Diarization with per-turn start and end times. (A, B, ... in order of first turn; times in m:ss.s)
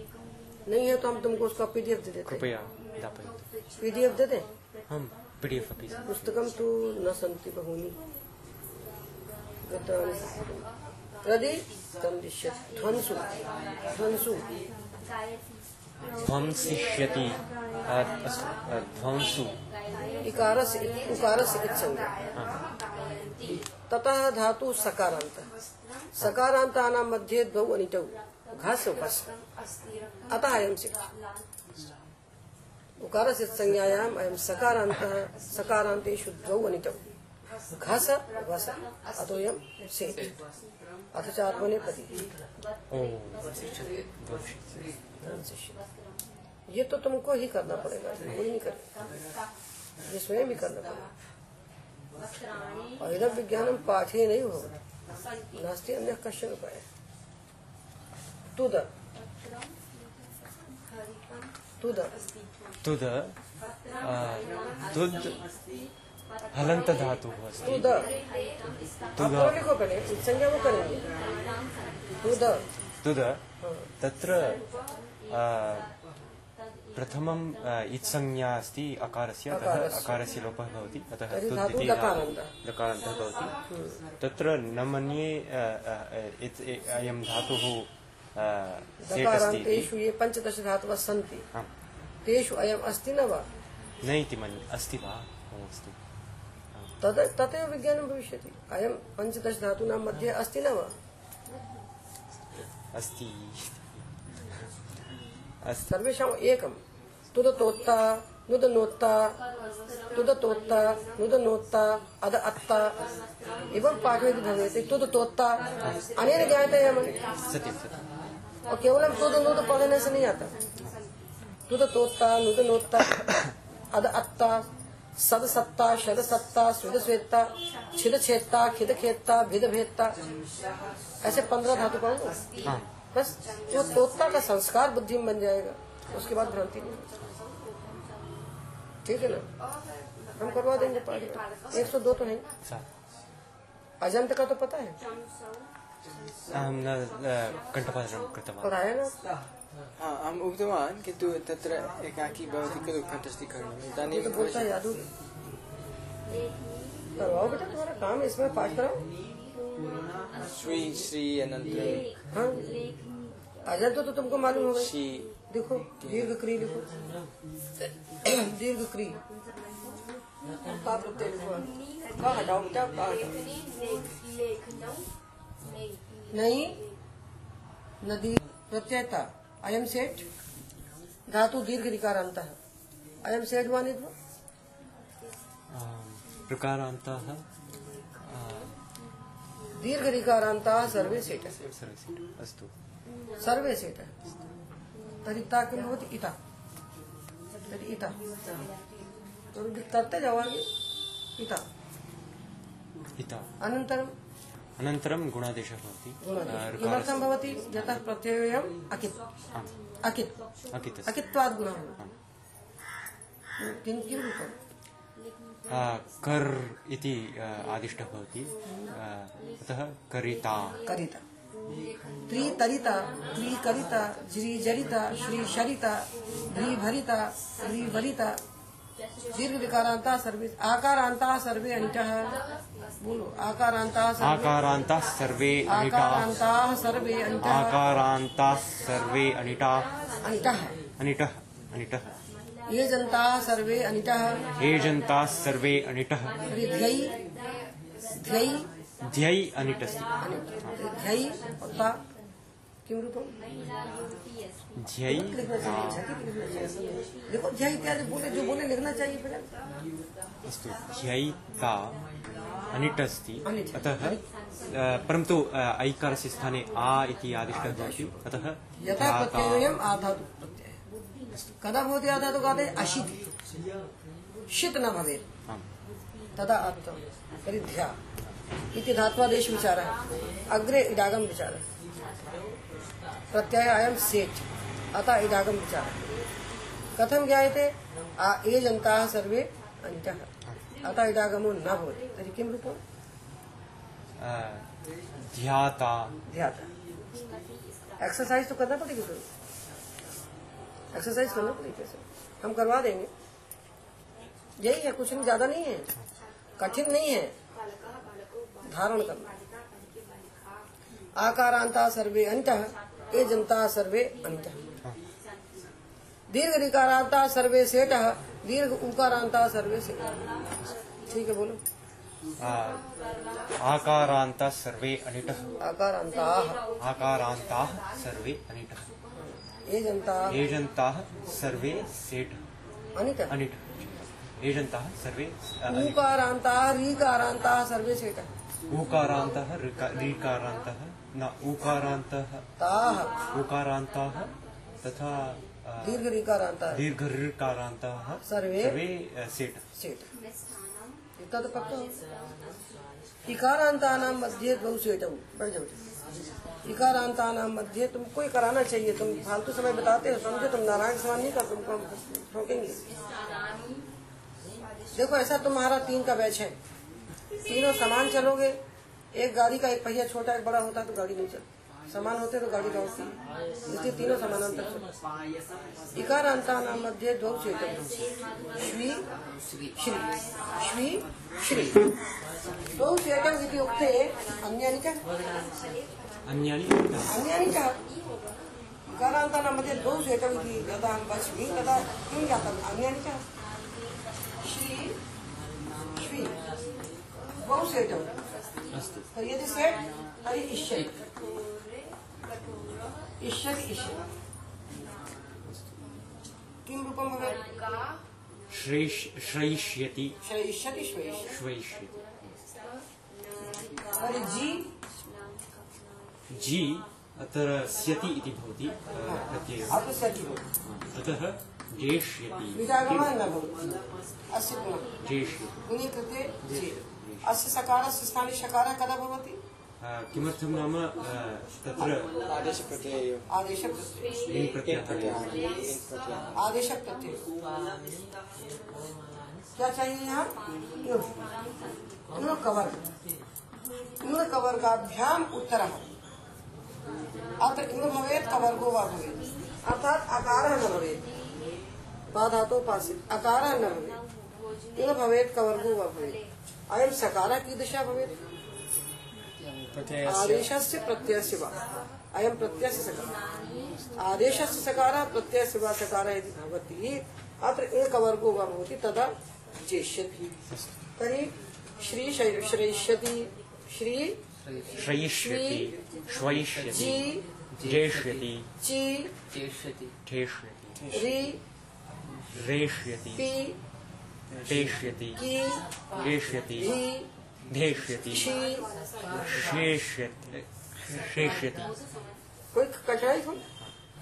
0:00.7-0:02.5 A
0:02.3-0:03.4 B
0:03.8-0:04.5 A
0:04.9-0:06.1 B
0:06.0-0:08.0 A
0:09.7-0:10.6 A
0:11.2-0:13.4 A
0:13.9-0:14.4 A
0:16.2-0:19.6 B
0:20.2-0:22.1 A
0:23.4-0:25.5 A
0:26.2-0:29.3 A
0:30.3-0:31.1 A
0:33.0-0:37.0 A
0:37.8-0:40.4 A
0:41.1-0:42.3 A
0:42.9-0:44.9 B
0:45.2-0:45.8 A
0:46.7-0:48.9 A
0:50.1-0:51.1 A
0:53.0-0:54.8 A
0:55.5-0:56.8 A
0:58.6-0:58.9 A
1:01.8-1:02.2 A
1:02.8-1:03.4 B
1:04.0-1:05.4 B
1:06.5-1:07.9 B
1:07.6-1:08.1 A
1:09.2-1:09.6 B
1:09.2-1:11.1 A
1:12.2-1:12.6 A
1:13.0-1:13.4 B
1:13.6-1:13.9 A
1:14.0-1:14.6 B
1:15.3-1:15.9 B
1:17.0-1:23.5 B
1:19.5-1:20.2 A
1:21.3-1:22.5 A
1:23.7-1:24.0 A
1:24.2-1:29.9 B
1:29.0-1:31.4 A
1:32.2-1:33.5 A
1:34.0-1:36.0 B
1:37.0-1:40.9 A
1:42.9-1:43.9 B
1:45.6-1:45.9 B
1:45.9-1:46.8 A
1:47.3-1:49.4 A
1:50.1-1:53.0 A
1:53.7-1:55.6 A
1:55.8-1:58.0 B
1:56.2-1:57.2 A
1:58.7-2:00.5 A
2:01.7-2:03.3 A
2:03.9-2:04.6 A
2:05.2-2:10.2 A
2:11.2-2:12.4 A
2:13.1-2:17.1 A
2:19.0-2:19.5 A
2:20.4-2:22.5 A
2:24.0-2:25.0 A
2:26.5-2:28.7 B
2:28.6-2:29.2 A
2:30.0-2:34.7 C
2:34.1-2:35.1 A
2:37.2-2:39.0 A
2:40.4-2:42.1 C
2:42.3-2:42.7 A
2:43.7-2:44.9 A
2:44.8-2:45.3 C
2:45.5-2:46.9 A
2:48.2-2:49.2 A
2:50.7-2:53.4 A
2:56.3-2:56.8 A
2:58.0-3:00.3 A
3:01.3-3:02.6 A
3:03.2-3:04.1 A
3:05.7-3:07.4 B
3:08.2-3:08.8 B
3:09.8-3:11.6 A
3:11.6-3:12.7 B
3:13.4-3:14.2 A
3:15.2-3:16.4 A
3:17.7-3:18.2 A
3:19.5-3:20.7 A
3:21.4-3:21.6 A
3:23.2-3:23.5 B
3:23.6-3:24.1 A
3:24.8-3:28.0 B
3:26.2-3:29.2 A
3:30.0-3:30.3 A
3:30.7-3:31.2 B
3:31.1-3:32.0 A
3:33.6-3:34.6 A
3:35.7-3:40.8 B
3:40.8-3:41.2 A
3:42.3-3:48.4 A
3:49.3-3:52.4 A
3:53.0-3:54.6 A
3:54.2-3:56.5 B
3:55.7-3:57.8 A
3:57.4-3:59.9 B
4:00.2-4:00.8 A
4:01.0-4:02.2 B
4:02.7-4:04.4 A
4:04.6-4:06.5 B
4:06.5-4:07.2 A
4:08.2-4:08.7 A
4:09.0-4:10.1 B
4:10.2-4:12.0 A
4:12.9-4:13.4 A
4:14.8-4:16.0 B
4:15.1-4:19.5 A
4:20.5-4:22.0 B
4:22.7-4:29.8 B
4:23.5-4:24.2 A
4:27.5-4:28.2 A
4:28.8-4:30.8 A
4:31.6-4:33.2 A
4:34.5-4:35.2 A
4:36.4-4:38.0 A
4:38.7-4:40.0 A
4:40.5-4:41.6 A
4:43.3-4:46.1 A
4:47.0-4:50.3 A
4:50.8-4:52.8 A
4:54.2-4:54.7 B
4:55.3-4:56.2 B
4:56.3-4:56.7 A
4:58.0-4:59.2 A
5:00.9-5:03.1 A
5:04.6-5:05.9 A
5:06.6-5:07.3 A
5:08.7-5:09.3 A
5:11.2-5:14.6 A
5:16.3-5:20.1 A
5:21.1-5:21.6 A
5:22.4-5:22.8 B
5:23.6-5:25.6 B
5:25.6-5:26.6 A
5:26.8-5:28.9 B
5:29.7-5:30.4 A
5:30.3-5:32.4 B
5:33.0-5:33.3 A
5:33.3-5:36.0 B
5:35.7-5:38.3 A
5:38.7-5:42.4 B
5:42.6-5:43.2 A
5:43.3-5:46.0 B
5:45.8-5:46.8 A
5:46.7-5:49.6 B
5:48.2-5:48.8 A
5:49.8-5:50.1 A
5:51.2-5:52.0 A
5:53.3-5:55.8 A
5:56.6-6:02.8 A
6:04.9-6:06.6 A
6:07.5-6:08.6 A
6:09.1-6:13.1 A
6:13.7-6:14.9 A
6:16.0-6:19.0 A
6:19.8-6:21.8 A
6:22.8-6:25.0 A
6:26.2-6:27.2 B
6:27.1-6:27.8 A
6:28.9-6:33.2 A
6:34.4-6:35.0 A
6:36.0-6:36.4 A
6:37.4-6:38.1 A
6:38.7-6:39.1 B
6:39.1-6:40.9 A
6:43.2-6:44.0 A
6:46.7-6:47.5 A
6:48.5-6:50.2 B
6:50.2-6:51.3 A
6:51.3-6:52.0 B
6:54.0-6:54.7 A
6:56.3-6:59.8 B
6:59.0-7:00.4 A
7:00.6-7:03.1 B
7:02.5-7:03.5 A
7:04.3-7:04.9 A
7:05.0-7:05.6 B
7:05.6-7:09.4 A
7:06.5-7:07.3 B
7:09.8-7:12.1 B
7:12.2-7:13.3 C
7:13.3-7:14.1 A
7:14.3-7:15.3 B
7:14.7-7:16.3 C
7:16.4-7:17.2 A
7:19.6-7:21.1 A
7:22.2-7:22.8 A
7:24.0-7:25.9 A
7:27.4-7:31.0 A
7:32.1-7:34.0 A
7:34.8-7:38.1 A
7:39.8-7:40.3 B
7:40.0-7:41.6 A
7:42.1-7:43.1 A
7:44.0-7:50.2 A
7:50.5-7:50.8 B
7:51.0-7:54.2 A
7:54.7-7:57.1 B
7:55.1-7:55.7 A
7:56.7-7:57.3 A
7:57.6-7:58.5 B
7:58.6-7:59.1 A
8:00.1-8:00.9 B
8:00.9-8:01.4 A
8:02.3-8:03.3 B
8:03.2-8:03.6 A
8:04.4-8:05.2 B
8:05.2-8:05.6 A
8:06.0-8:06.8 B
8:06.6-8:07.1 A
8:07.5-8:08.3 B
8:08.1-8:08.7 A
8:09.1-8:11.7 B
8:12.5-8:13.4 A